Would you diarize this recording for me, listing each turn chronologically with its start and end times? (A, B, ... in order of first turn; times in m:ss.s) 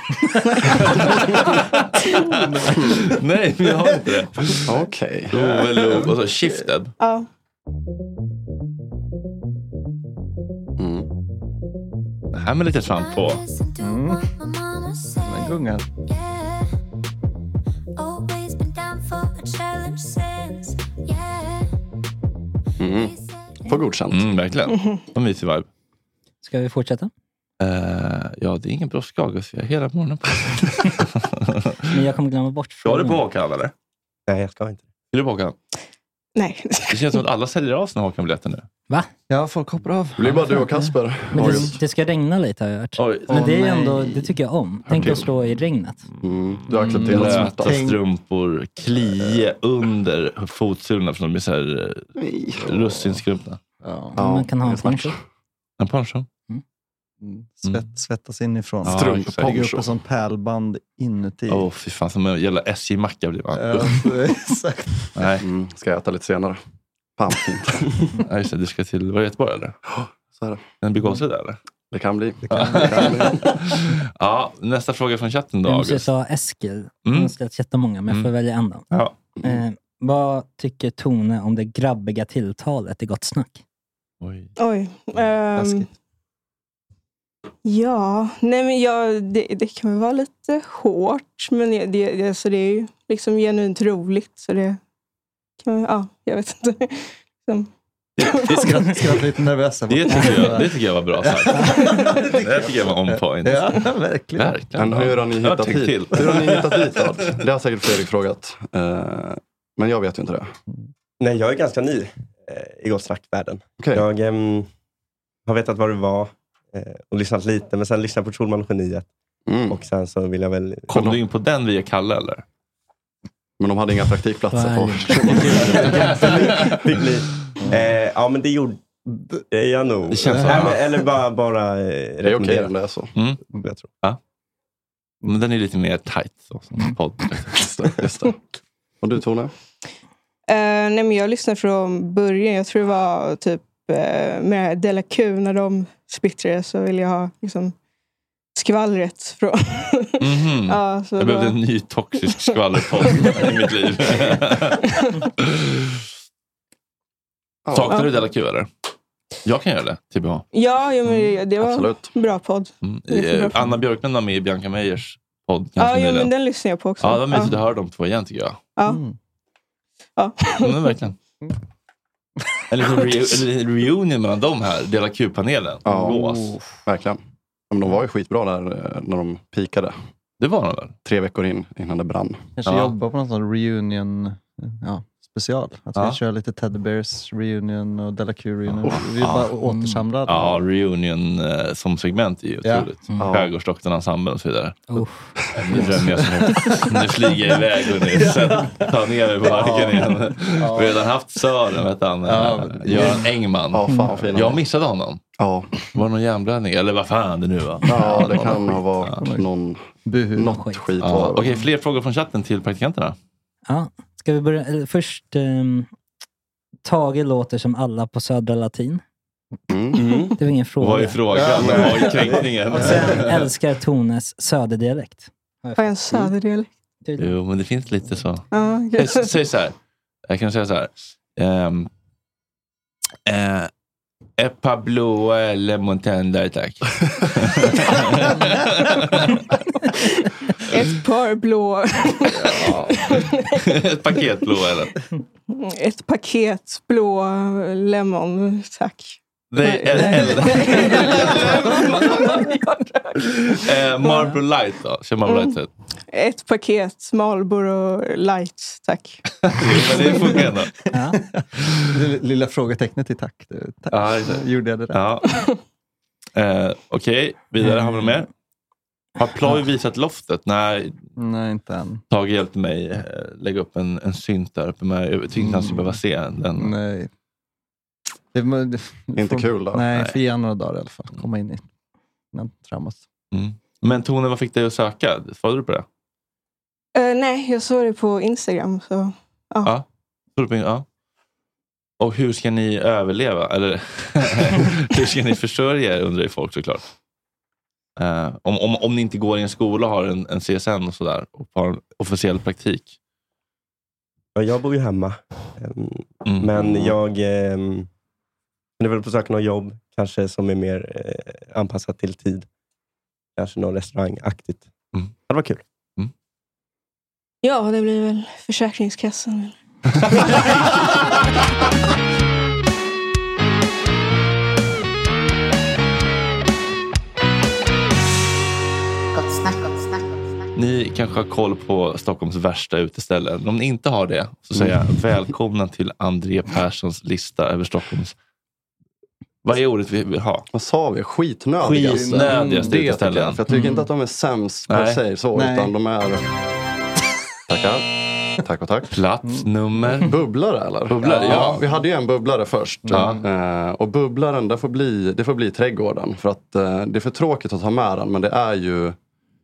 0:00.4-0:01.1 A
0:00.7-0:04.7 B
0:02.5-0:02.9 C
0:04.7-0:05.4 D
0:05.3-0:06.9 B
0:07.0-0:07.3 A
0:10.8-0:11.1 D
0:12.3-0:13.4 B
0:13.8-0:14.3 C
0:15.2-0:15.9 C
0:22.8-0:24.3 D
0:24.1-0:25.7 B
0:24.7-0:25.0 A
0:26.4-0:27.1 E
0:27.6-0:31.8 B
0:31.9-0:33.2 E
0:32.8-0:33.7 B
0:34.3-0:34.9 F
0:35.1-0:35.6 B
0:36.4-0:37.2 A
0:36.9-0:38.7 B
0:39.3-0:41.7 C
0:40.2-0:41.8 D
0:41.3-0:46.0 E
0:43.0-0:43.3 B
0:43.3-0:44.3 C
0:44.9-0:45.3 D
0:46.2-0:47.8 D
0:46.7-0:48.0 C
0:47.0-0:53.6 B
0:52.2-0:52.6 D
0:53.8-0:54.2 C
0:54.2-0:55.2 E
0:54.2-0:55.2 D
0:55.8-0:56.3 B
0:57.2-1:01.7 C
0:58.8-0:59.5 B
0:58.8-0:59.9 D
1:01.5-1:04.1 B
1:03.5-1:05.1 C
1:05.2-1:05.4 B
1:05.4-1:06.6 D
1:07.2-1:08.0 D
1:08.2-1:09.8 B
1:09.9-1:10.6 D
1:10.8-1:11.6 B
1:11.9-1:13.5 D
1:12.5-1:16.1 B
1:12.5-1:13.3 C
1:15.7-1:18.9 E
1:17.1-1:17.3 B
1:19.4-1:23.6 E
1:24.2-1:24.5 B
1:24.6-1:25.9 A
1:25.6-1:25.9 C
1:27.6-1:34.8 A
1:35.6-1:38.9 A
1:38.2-1:39.1 B
1:38.5-1:44.6 C
1:39.9-1:47.3 B
1:44.8-1:50.5 D
1:51.2-1:54.7 F
1:55.5-1:59.1 F
1:59.5-1:59.8 D
1:59.7-2:00.9 F
2:00.9-2:02.4 B
2:00.9-2:01.2 D
2:03.6-2:06.3 D
2:04.5-2:06.2 E
2:06.1-2:08.8 F
2:09.5-2:12.7 F
2:10.1-2:10.8 B
2:12.2-2:13.1 D
2:13.2-2:13.4 B
2:15.2-2:17.7 B
2:17.6-2:18.4 D
2:19.0-2:19.5 D
2:20.5-2:27.8 A
2:28.6-2:31.6 A
2:30.2-2:36.0 B
2:32.3-2:33.5 A
2:34.8-2:35.3 A
2:37.7-2:37.9 D
2:37.7-2:38.7 B
2:39.4-2:40.4 B
2:40.5-2:43.8 A
2:41.6-2:42.1 D
2:42.8-2:46.3 B
2:45.8-2:47.6 A
2:47.0-2:48.6 B
2:48.8-2:49.0 A
2:48.9-2:49.2 C
2:50.2-2:51.0 A
2:50.6-2:51.2 B
2:52.7-2:56.6 B
2:55.9-2:56.2 D
2:55.9-2:56.7 C
2:56.8-2:57.2 D
2:57.7-3:00.0 D
3:00.4-3:01.0 B
3:01.0-3:02.4 D
3:02.6-3:10.6 C
3:02.7-3:02.9 B
3:09.2-3:09.5 B
3:09.7-3:10.0 E
3:10.3-3:14.8 B
3:13.2-3:13.5 D
3:14.9-3:15.3 E
3:15.5-3:25.2 B
3:16.4-3:16.9 C
3:18.1-3:18.9 C
3:19.5-3:20.0 C
3:20.6-3:21.0 C
3:22.2-3:23.2 C
3:23.7-3:24.6 D
3:25.4-3:25.7 D
3:25.9-3:29.2 B
3:27.9-3:31.5 D
3:29.2-3:29.4 C
3:30.1-3:30.6 C
3:30.5-3:30.8 E
3:31.0-3:33.2 B
3:33.7-3:35.9 E
3:36.8-3:39.0 E
3:39.7-3:40.2 D
3:40.0-3:40.3 F
3:40.4-3:41.2 E
3:40.8-3:43.5 B
3:41.3-3:43.0 C
3:41.6-3:42.1 D
3:42.7-3:45.9 E
3:45.8-3:46.7 A
3:47.0-3:47.3 E
3:47.2-3:49.8 B
3:48.5-3:49.4 A
3:50.3-3:51.9 B
3:53.3-3:53.7 B
3:54.4-3:59.4 B
4:00.0-4:03.6 A
4:02.4-4:03.0 C
4:03.6-4:04.9 B
4:05.5-4:14.3 A
4:09.5-4:12.4 B
4:13.2-4:15.7 B
4:15.3-4:15.6 A
4:16.1-4:19.2 A
4:19.5-4:20.7 B
4:19.7-4:20.4 A
4:20.9-4:21.2 E
4:21.1-4:25.0 C
4:23.9-4:25.4 B
4:26.4-4:28.3 B
4:29.2-4:31.0 B
4:31.2-4:32.0 C
4:32.1-4:36.7 B
4:35.4-4:35.9 C
4:36.6-4:37.1 C
4:38.3-4:41.6 C
4:39.2-4:39.9 D
4:42.3-4:43.0 C
4:43.3-4:45.9 B
4:47.0-4:49.7 A
4:50.4-4:50.8 B
4:52.0-4:56.8 B
4:58.0-5:03.0 B
5:04.4-5:07.9 F
5:06.2-5:07.0 B
5:08.8-5:12.5 F
5:13.4-5:14.7 F
5:15.3-5:15.6 F
5:17.4-5:19.5 A
5:30.6-5:38.2 B
5:39.4-5:40.5 B
5:40.5-5:46.2 D
5:41.6-5:43.4 B
5:41.8-5:42.7 C
5:43.5-5:43.9 C
5:44.7-5:45.0 B
5:45.4-5:45.7 C
5:47.5-5:47.8 D
5:48.4-5:48.9 D
5:48.9-5:50.1 B
5:50.0-5:59.0 D
5:50.9-5:51.6 B
5:51.0-5:51.6 C
5:52.8-5:53.2 C
5:52.9-5:53.2 B